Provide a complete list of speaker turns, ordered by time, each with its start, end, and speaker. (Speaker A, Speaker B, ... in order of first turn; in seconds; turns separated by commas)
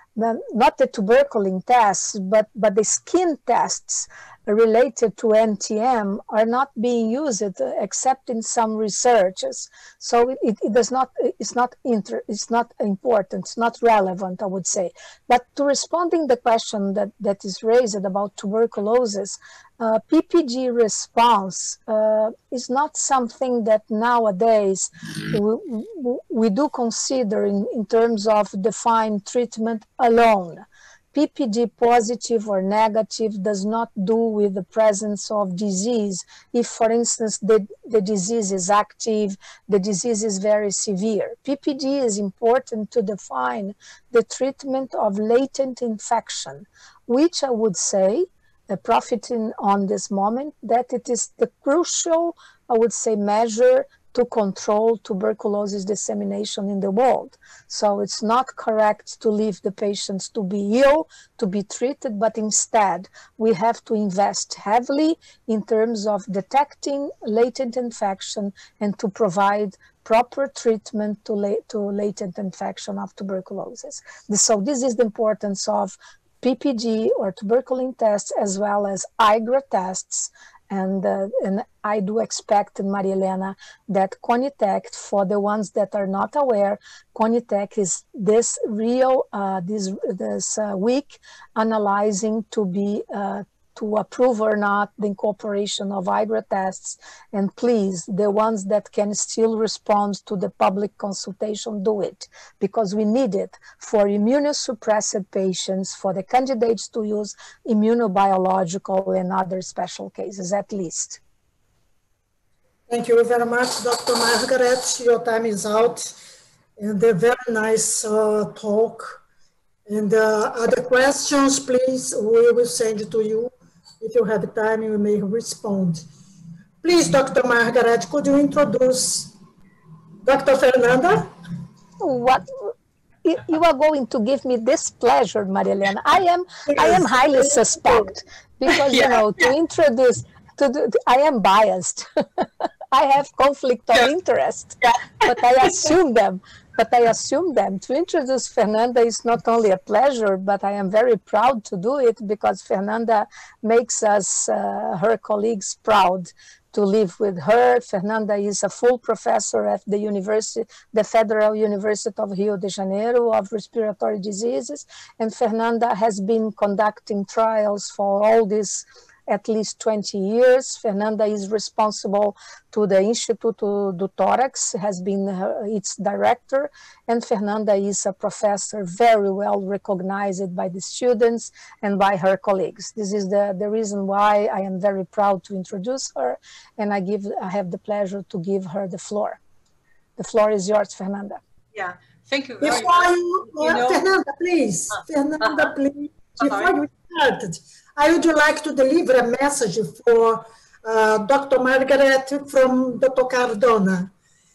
Speaker A: 0.1-111.2, Speaker B: 112.9-116.2, Speaker B: 116.8-119.2, Speaker B: 119.9-126.0, Speaker B: 126.8-129.3, Speaker B: 130.2-131.3, Speaker A: 132.0-132.7, Speaker A: 133.2-189.4, Speaker C: 138.9-139.2, Speaker A: 190.2-191.4, Speaker C: 191.7-194.0, Speaker B: 192.6-204.1, Speaker C: 195.4-195.7, Speaker C: 196.4-196.8